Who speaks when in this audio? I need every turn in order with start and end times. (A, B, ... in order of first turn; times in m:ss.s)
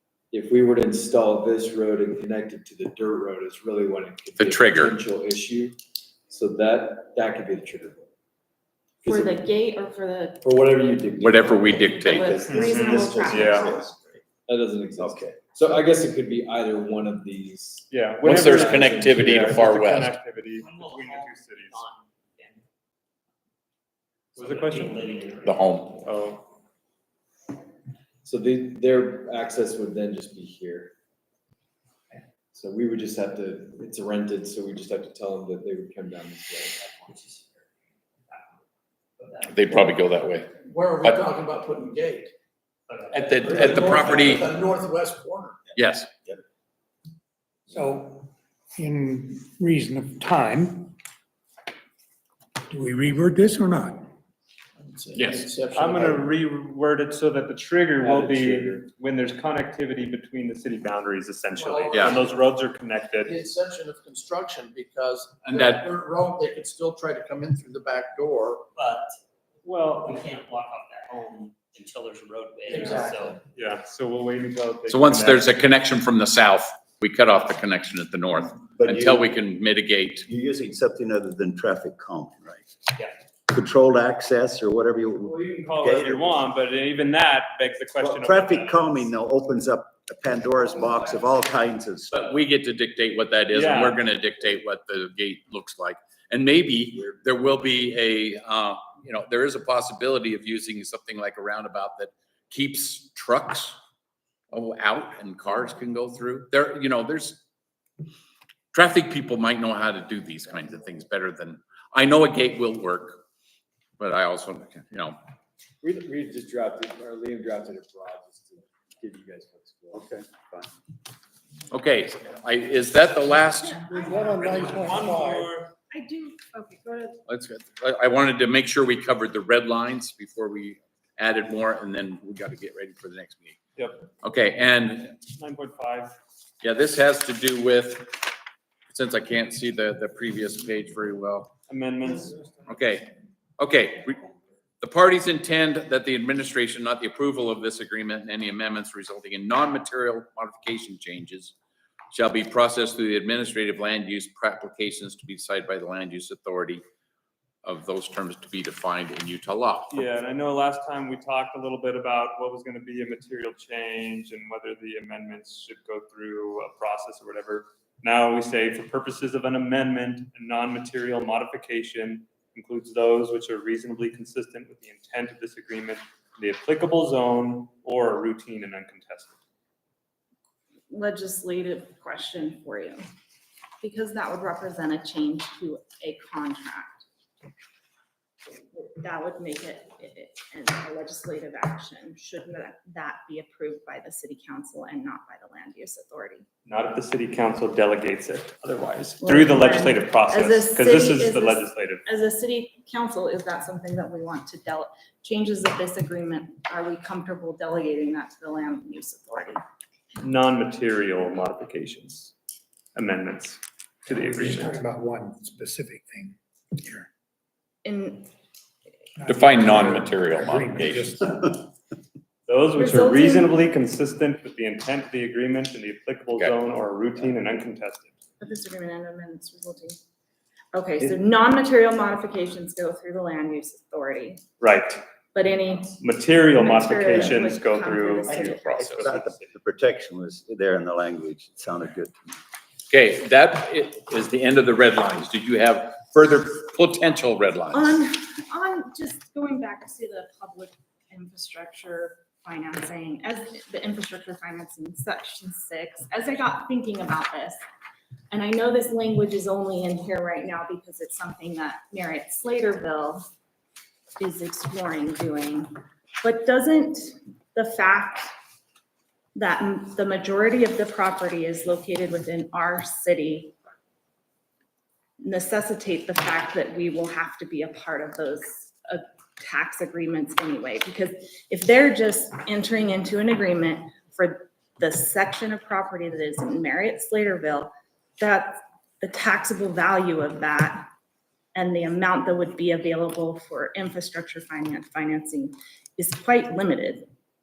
0:00.3-0:05.8 A
0:04.4-0:05.0 B
0:06.3-0:08.1 A
0:09.0-0:09.4 A
0:09.0-0:10.4 C
0:10.4-0:13.7 A
0:11.2-0:12.4 B
0:11.7-0:13.8 C
0:12.4-0:13.8 D
0:13.4-0:14.0 E
0:14.5-0:19.8 A
0:15.0-0:15.4 E
0:17.9-0:21.9 D
0:18.2-0:20.1 B
0:20.6-0:22.6 F
0:24.4-0:25.9 F
0:24.4-0:25.4 D
0:25.4-0:26.0 B
0:26.0-0:26.5 D
0:28.2-0:30.9 A
0:32.5-0:37.1 A
0:37.1-0:37.6 F
0:39.2-0:39.9 F
0:39.4-0:40.5 B
0:40.6-0:42.3 G
0:42.9-0:43.4 F
0:43.1-0:44.5 B
0:43.4-0:45.6 G
0:45.8-0:46.1 B
0:47.7-0:50.9 H
0:52.7-0:54.0 H
0:54.8-0:56.2 G
0:55.2-0:55.5 B
0:55.7-1:03.4 D
0:58.0-0:58.9 A
1:01.5-1:02.3 G
1:01.9-1:02.2 B
1:03.2-1:08.6 G
1:05.4-1:05.9 B
1:08.8-1:09.2 F
1:09.6-1:10.2 D
1:09.9-1:13.4 F
1:12.7-1:15.5 D
1:12.8-1:13.2 G
1:14.9-1:20.3 B
1:18.8-1:19.3 E
1:20.3-1:22.7 E
1:23.5-1:26.4 E
1:25.2-1:29.1 D
1:28.0-1:32.2 E
1:32.1-1:43.8 B
1:33.5-1:34.0 D
1:44.5-1:47.4 B
1:48.7-1:53.2 B
1:54.0-1:55.2 B
1:55.8-2:00.0 A
1:59.9-2:00.7 E
2:01.7-2:04.0 B
2:03.5-2:04.6 C
2:04.1-2:05.7 D
2:04.3-2:05.4 H
2:05.9-2:07.2 C
2:07.3-2:13.6 B
2:13.8-2:14.1 D
2:14.2-2:15.2 B
2:15.3-2:16.1 D
2:16.6-2:18.2 B
2:18.9-2:21.5 B
2:21.7-2:22.5 D
2:22.7-2:23.1 B
2:23.6-2:24.2 B
2:24.8-2:31.5 B
2:32.1-2:36.8 B
2:37.6-2:40.0 B
2:39.9-2:59.4 D
3:00.9-3:03.0 C
3:03.8-3:07.0 C
3:08.7-3:16.5 C
3:16.6-3:22.0 D
3:19.2-3:29.6 C
3:30.2-3:32.3 D
3:33.0-3:34.8 D
3:34.4-3:37.1 H
3:37.8-3:38.3 C
3:39.2-3:40.1 H
3:39.3-3:41.2 B
3:40.6-3:41.2 H
3:42.5-3:48.1 D
3:42.8-3:43.6 C
3:48.4-3:50.0 C
3:50.7-3:54.4 C
3:54.6-3:55.0 D
3:55.3-3:56.0 C
3:56.0-3:59.5 D
3:56.5-3:58.8 C
3:58.3-4:02.1 E
3:58.5-3:59.1 B
4:02.9-4:07.9 B
4:07.7-4:17.6 C
4:18.3-4:23.3 C
4:24.2-4:28.3 C
4:29.4-4:33.6 C
4:35.2-4:50.9 C
4:51.6-4:57.0 C